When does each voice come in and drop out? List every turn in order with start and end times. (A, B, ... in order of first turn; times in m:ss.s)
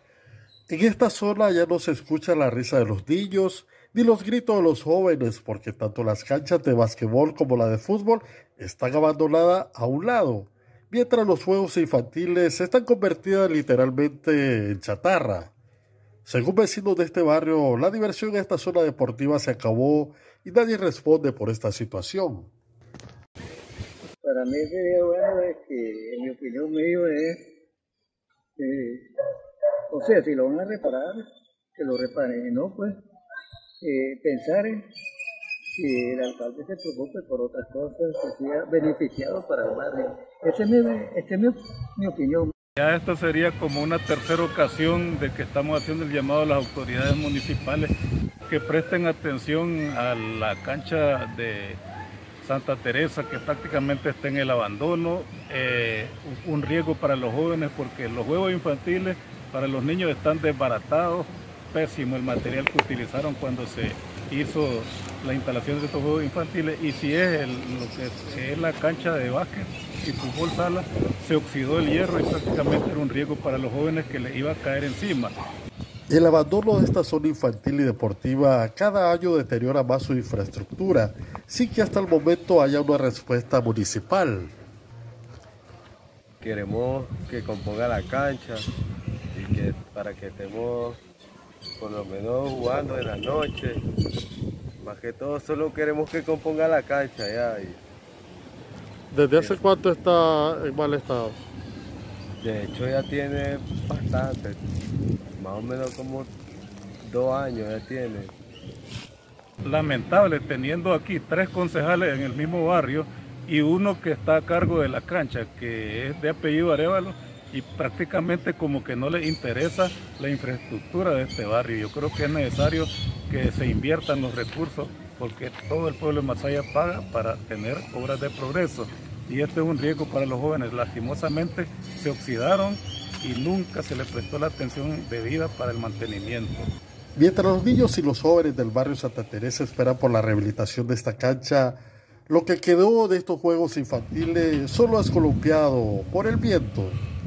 0:00.7-0:15.5 A
0:16.2-0:22.5 A
0:24.2-0:27.4 B
0:28.6-0:29.1 B
0:29.9-0:31.2 B
0:31.8-0:32.9 B
0:33.8-0:34.9 B
0:35.7-0:42.5 B
0:42.8-0:47.9 C
0:48.5-0:51.8 C
0:52.4-1:15.3 C
1:16.1-1:24.5 A
1:26.4-1:28.7 D
1:29.3-1:31.0 D
1:31.8-1:33.8 D
1:34.8-1:37.8 D
1:39.1-1:41.4 A
1:42.4-1:44.6 D
1:45.4-1:46.3 D
1:47.0-1:48.3 D
1:49.6-2:16.7 C
2:17.2-2:27.0 A